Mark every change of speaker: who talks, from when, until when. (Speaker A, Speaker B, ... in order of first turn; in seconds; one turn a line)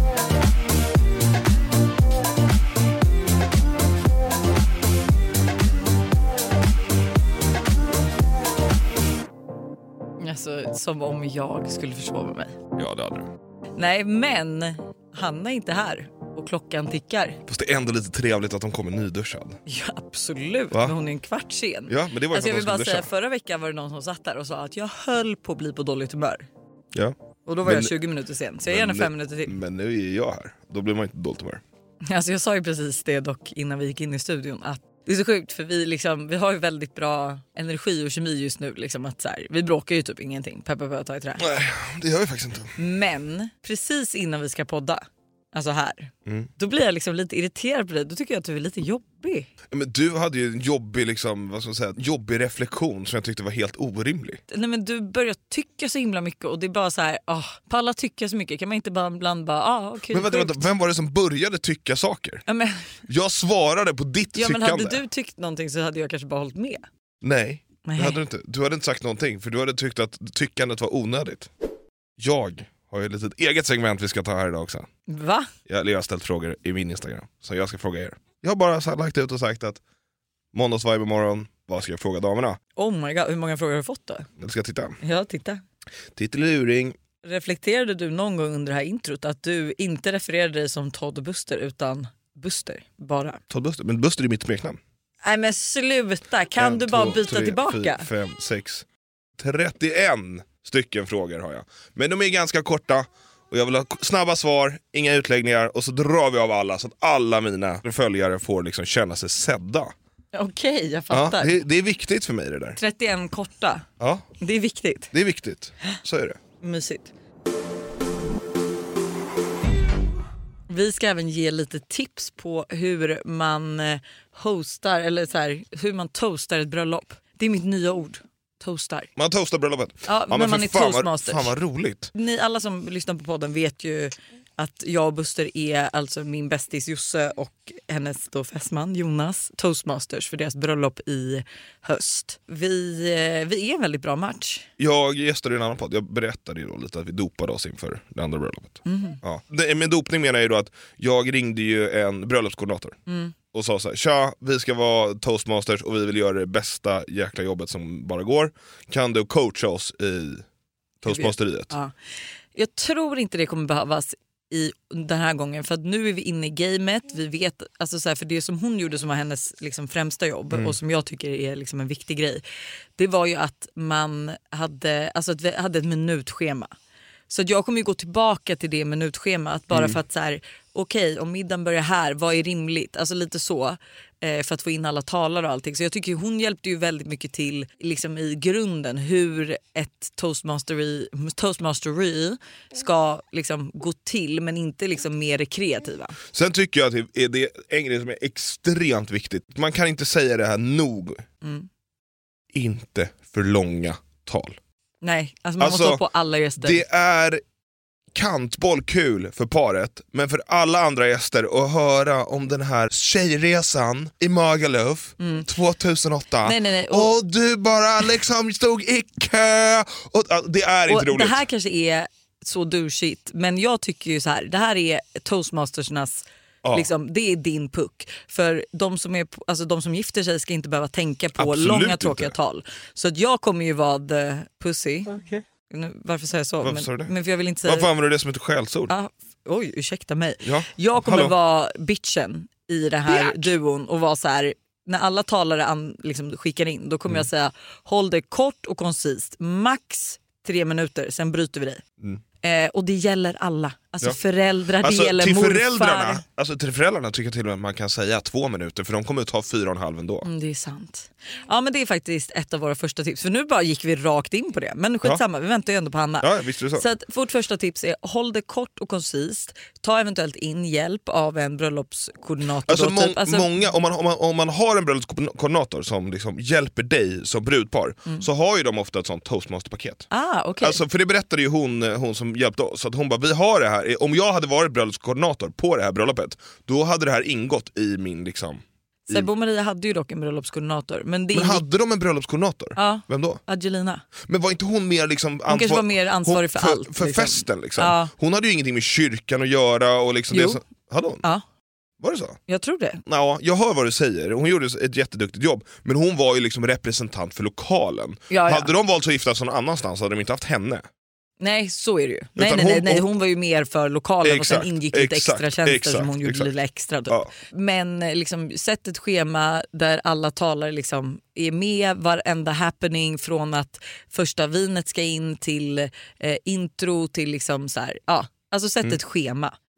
Speaker A: 10.2-12.6
Speaker B: 12.8-13.3
Speaker A: 13.8-17.4
Speaker B: 17.5-19.6
Speaker A: 19.7-26.5
Speaker B: 21.9-23.1
Speaker B: 26.9-28.0
Speaker A: 27.5-29.6
Speaker B: 28.7-31.6
Speaker A: 32.1-41.5
Speaker B: 41.4-42.7
Speaker A: 42.8-49.5
Speaker B: 49.7-54.4
Speaker A: 54.5-60.6
Speaker B: 60.1-62.4
Speaker A: 62.5-62.9
Speaker B: 63.1-65.0
Speaker A: 64.3-66.8
Speaker B: 67.2-71.5
Speaker A: 67.8-68.2
Speaker B: 72.2-74.9
Speaker A: 75.1-75.5
Speaker B: 75.7-79.8
Speaker B: 80.5-82.6
Speaker A: 82.8-84.3
Speaker B: 84.4-85.0
Speaker A: 85.0-85.6
Speaker B: 86.2-87.0
Speaker A: 87.2-93.4
Speaker B: 93.5-94.8
Speaker A: 95.2-98.1
Speaker B: 96.6-98.8
Speaker B: 99.4-109.9
Speaker A: 110.3-111.6
Speaker B: 111.1-112.8
Speaker A: 112.8-113.8
Speaker B: 114.0-114.3
Speaker A: 114.4-115.1
Speaker B: 115.1-116.4
Speaker A: 116.6-117.1
Speaker A: 120.7-129.1
Speaker B: 129.2-132.1
Speaker A: 130.1-131.5
Speaker A: 132.1-144.7
Speaker B: 144.8-153.0
Speaker A: 148.8-149.2
Speaker A: 153.1-153.3
Speaker B: 153.5-160.5
Speaker B: 161.0-161.7
Speaker A: 161.1-161.9
Speaker A: 162.6-172.4
Speaker B: 170.5-170.8
Speaker A: 173.0-176.7
Speaker A: 177.3-196.2
Speaker B: 179.7-180.0
Speaker B: 196.3-201.2
Speaker B: 202.5-204.6
Speaker A: 205.0-206.8
Speaker B: 205.6-206.0
Speaker B: 206.6-207.4
Speaker B: 208.1-221.4
Speaker A: 215.2-215.5
Speaker A: 216.4-217.1
Speaker A: 220.9-237.9
Speaker B: 226.6-226.9
Speaker B: 231.4-232.3
Speaker B: 236.6-238.9
Speaker A: 238.9-251.8
Speaker B: 240.4-241.3
Speaker B: 243.1-243.5
Speaker A: 252.4-256.2
Speaker B: 254.8-260.3
Speaker A: 260.2-273.5
Speaker B: 266.2-266.9
Speaker B: 272.7-280.1
Speaker A: 280.1-280.8
Speaker B: 280.6-289.3
Speaker A: 289.1-291.6
Speaker B: 291.3-293.4
Speaker A: 292.8-294.0
Speaker B: 294.2-301.2
Speaker A: 295.5-298.1
Speaker A: 300.3-300.6
Speaker B: 302.0-302.4
Speaker A: 302.5-303.0
Speaker B: 303.1-310.9
Speaker A: 308.3-308.7
Speaker A: 311.4-329.6
Speaker B: 312.4-313.1
Speaker B: 314.2-316.5